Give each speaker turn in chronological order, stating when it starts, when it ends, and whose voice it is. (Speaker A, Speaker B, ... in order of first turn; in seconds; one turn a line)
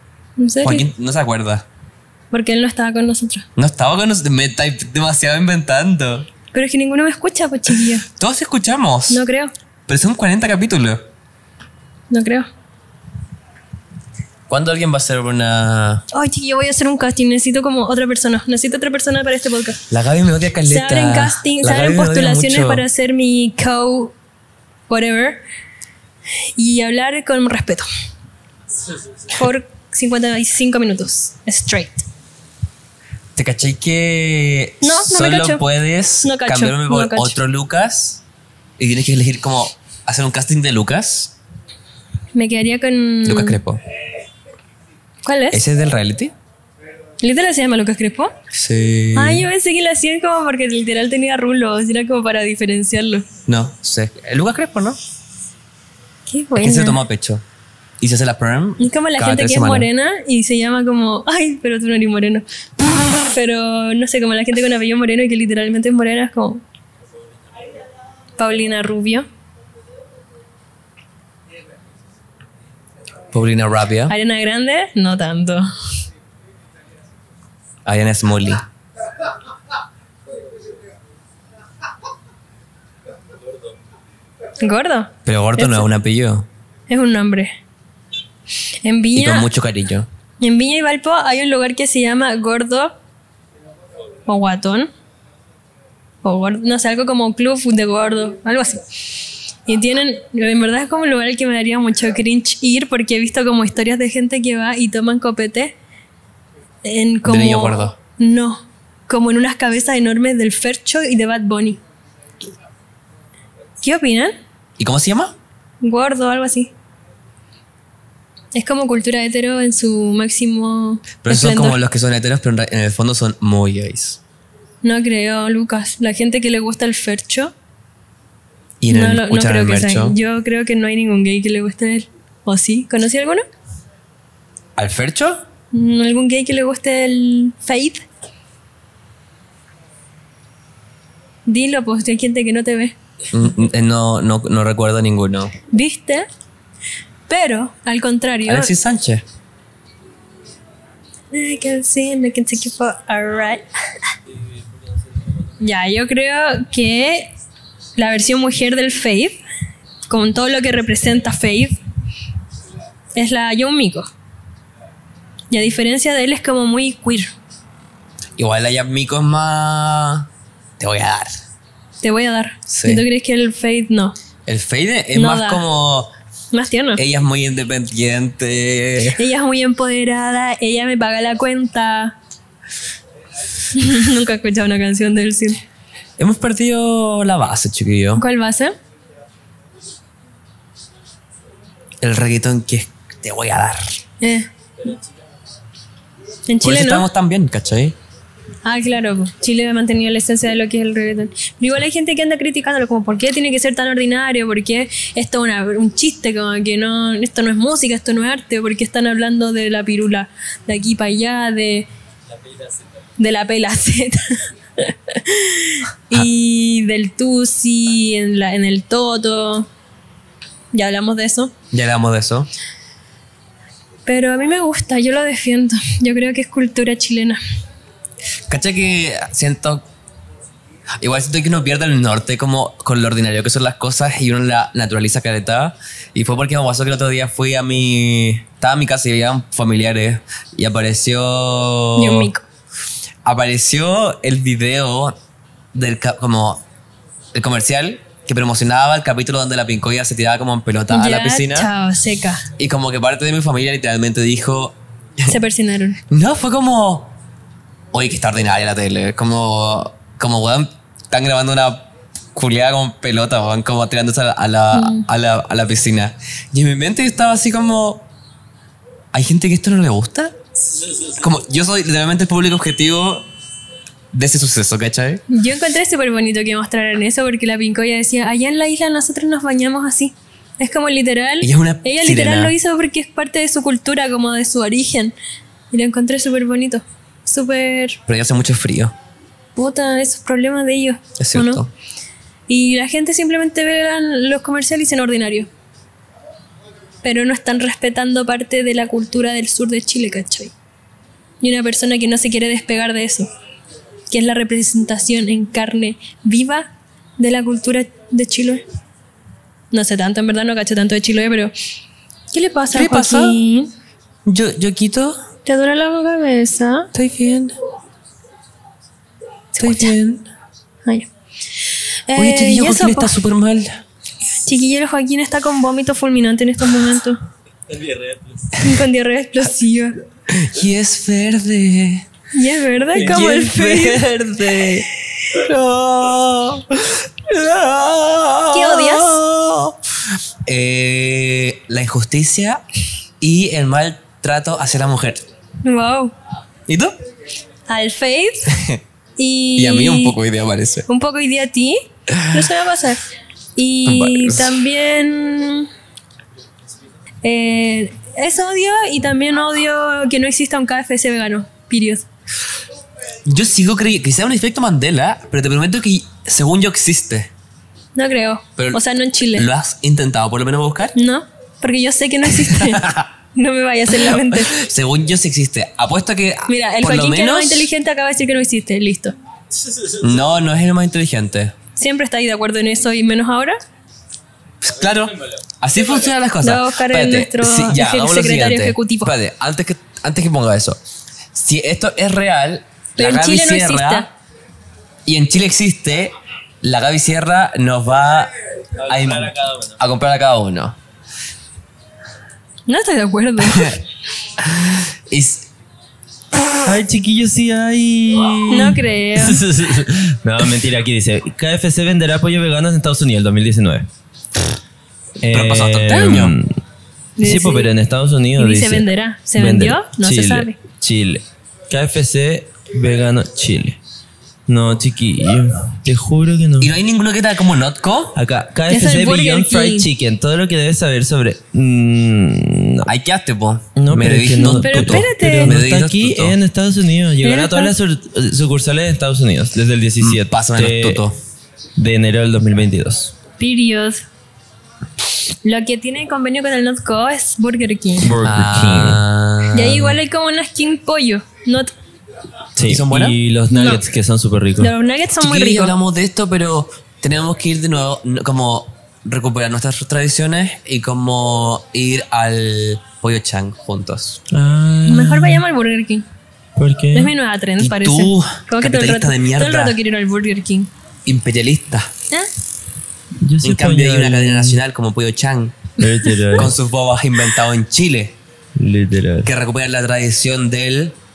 Speaker A: 0.4-0.8
Speaker B: 0.6-1.6
Speaker A: 2.3-3.5
Speaker B: 3.6-6.3
Speaker A: 6.5-8.1
Speaker B: 8.1-9.2
Speaker A: 9.1-9.5
Speaker B: 9.9-11.0
Speaker A: 12.1-12.5
Speaker B: 14.5-16.0
Speaker A: 16.1-19.8
Speaker B: 19.9-22.9
Speaker A: 20.7-24.1
Speaker A: 24.9-25.4
Speaker A: 26.6-27.9
Speaker A: 29.3-32.0
Speaker B: 33.3-38.2
Speaker A: 34.8-35.6
Speaker A: 36.2-37.4
Speaker B: 38.8-41.3
Speaker A: 42.3-43.6
Speaker B: 43.2-43.8
Speaker A: 45.2-45.6
Speaker B: 45.5-46.3
Speaker A: 47.2-48.3
Speaker B: 48.5-49.5
Speaker A: 49.1-53.3
Speaker B: 53.5-55.0
Speaker A: 56.3-57.0
Speaker B: 56.6-57.4
Speaker B: 58.0-59.9
Speaker A: 58.8-66.6
Speaker A: 68.4-69.2
Speaker B: 73.3-74.1
Speaker A: 74.1-75.7
Speaker B: 77.8-78.7
Speaker A: 84.6-85.9
Speaker B: 85.2-86.5
Speaker A: 86.9-87.5
Speaker A: 88.8-89.5
Speaker B: 89.1-90.1
Speaker A: 90.4-92.9
Speaker A: 94.3-94.9
Speaker A: 96.2-99.1
Speaker A: 99.7-105.8
Speaker A: 106.8-111.8
Speaker B: 107.2-108.0
Speaker A: 113.8-114.3
Speaker B: 114.8-115.3
Speaker A: 115.8-116.7
Speaker A: 118.5-121.8
Speaker B: 121.2-124.2
Speaker A: 124.8-127.5
Speaker B: 128.8-130.2
Speaker A: 128.9-133.4
Speaker B: 134.8-135.4
Speaker A: 135.7-138.0
Speaker A: 141.5-142.9
Speaker B: 143.3-145.5
Speaker A: 145.7-146.3
Speaker A: 147.3-148.7
Speaker B: 148.4-149.2
Speaker A: 151.3-153.7
Speaker A: 155.6-157.3
Speaker A: 158.0-159.4
Speaker A: 160.1-161.8
Speaker A: 163.1-164.1
Speaker A: 165.5-167.3
Speaker B: 168.4-171.4
Speaker A: 172.0-174.2
Speaker B: 172.7-173.0
Speaker B: 174.4-176.1
Speaker A: 175.1-175.6
Speaker A: 176.5-177.0
Speaker B: 176.9-179.2
Speaker A: 179.1-182.2
Speaker A: 183.7-185.6
Speaker B: 186.2-188.2
Speaker A: 188.2-188.7
Speaker B: 192.0-194.0
Speaker A: 194.2-194.5
Speaker A: 196.5-197.1
Speaker B: 196.6-197.9
Speaker A: 198.6-211.9
Speaker A: 213.2-219.7
Speaker A: 220.7-221.5
Speaker B: 221.7-222.5
Speaker A: 224.1-227.4
Speaker B: 228.5-229.8
Speaker B: 231.0-242.3
Speaker A: 241.9-242.4
Speaker B: 243.2-245.2
Speaker B: 245.7-246.6
Speaker B: 247.3-251.7
Speaker A: 250.9-252.4
Speaker B: 252.6-255.3
Speaker A: 255.3-256.0
Speaker B: 256.1-257.1
Speaker B: 257.9-268.1
Speaker A: 264.7-265.1
Speaker B: 269.1-270.3
Speaker B: 271.0-273.3
Speaker B: 274.1-275.2
Speaker A: 275.3-285.1
Speaker B: 281.4-282.5
Speaker A: 285.7-288.0
Speaker B: 288.1-288.9
Speaker A: 289.5-291.6
Speaker B: 291.2-291.7
Speaker A: 292.5-295.5
Speaker A: 297.0-300.5
Speaker A: 301.4-303.3
Speaker A: 304.1-308.6
Speaker A: 309.7-311.5
Speaker A: 312.3-313.7
Speaker B: 312.7-313.4
Speaker B: 314.2-315.2
Speaker A: 315.4-316.9
Speaker B: 316.9-317.6
Speaker A: 319.5-319.9
Speaker B: 319.6-320.3
Speaker A: 322.1-323.1
Speaker B: 322.1-323.8
Speaker A: 324.4-327.2
Speaker C: 327.7-328.5
Speaker A: 328.6-330.0
Speaker B: 330.3-332.0
Speaker A: 332.3-334.1
Speaker B: 332.9-339.8
Speaker A: 338.5-339.2
Speaker B: 340.4-342.6
Speaker B: 343.2-345.2
Speaker A: 345.6-346.1
Speaker B: 346.7-346.9
Speaker A: 347.7-348.5
Speaker B: 348.5-348.8
Speaker A: 349.2-350.2
Speaker B: 349.6-350.9
Speaker A: 350.9-353.0
Speaker B: 352.1-352.4
Speaker A: 353.6-355.7
Speaker B: 353.9-354.6
Speaker A: 357.2-362.1
Speaker B: 363.2-367.3
Speaker A: 367.9-369.5
Speaker B: 368.6-370.9
Speaker A: 370.9-374.5
Speaker B: 372.3-373.1
Speaker B: 373.9-377.7
Speaker A: 376.5-379.1
Speaker B: 379.9-381.5
Speaker A: 381.8-383.6
Speaker B: 384.6-390.8
Speaker A: 386.4-389.1
Speaker B: 391.3-394.1
Speaker A: 393.0-394.1
Speaker B: 395.1-398.3
Speaker C: 398.8-399.8
Speaker B: 398.8-400.8
Speaker A: 402.7-403.8
Speaker B: 403.4-403.8
Speaker B: 404.4-405.5
Speaker C: 406.6-413.9
Speaker A: 408.5-409.4
Speaker C: 415.2-416.5
Speaker B: 415.3-416.3
Speaker A: 417.2-417.7
Speaker C: 417.2-423.8
Speaker A: 418.4-420.6
Speaker C: 424.5-426.7
Speaker B: 426.6-428.2
Speaker C: 428.1-432.9
Speaker A: 428.7-429.9
Speaker B: 432.8-436.4
Speaker C: 433.8-441.0
Speaker A: 434.5-435.6
Speaker A: 437.2-437.7
Speaker B: 440.0-441.2
Speaker C: 441.8-443.1
Speaker A: 443.4-444.0
Speaker A: 445.4-448.1
Speaker C: 448.0-449.0
Speaker B: 448.2-450.0
Speaker A: 449.5-451.7
Speaker C: 452.6-454.7
Speaker B: 452.6-453.2
Speaker A: 453.5-453.8
Speaker A: 454.6-455.8
Speaker B: 455.2-464.2
Speaker C: 464.3-465.4
Speaker A: 464.9-466.0
Speaker C: 466.6-467.1
Speaker A: 466.9-470.7
Speaker B: 467.6-469.8
Speaker B: 471.1-471.9
Speaker C: 473.2-474.6
Speaker B: 473.4-475.6
Speaker C: 475.8-476.5
Speaker A: 475.8-476.4
Speaker B: 476.3-478.1
Speaker C: 478.6-479.3
Speaker B: 479.2-481.0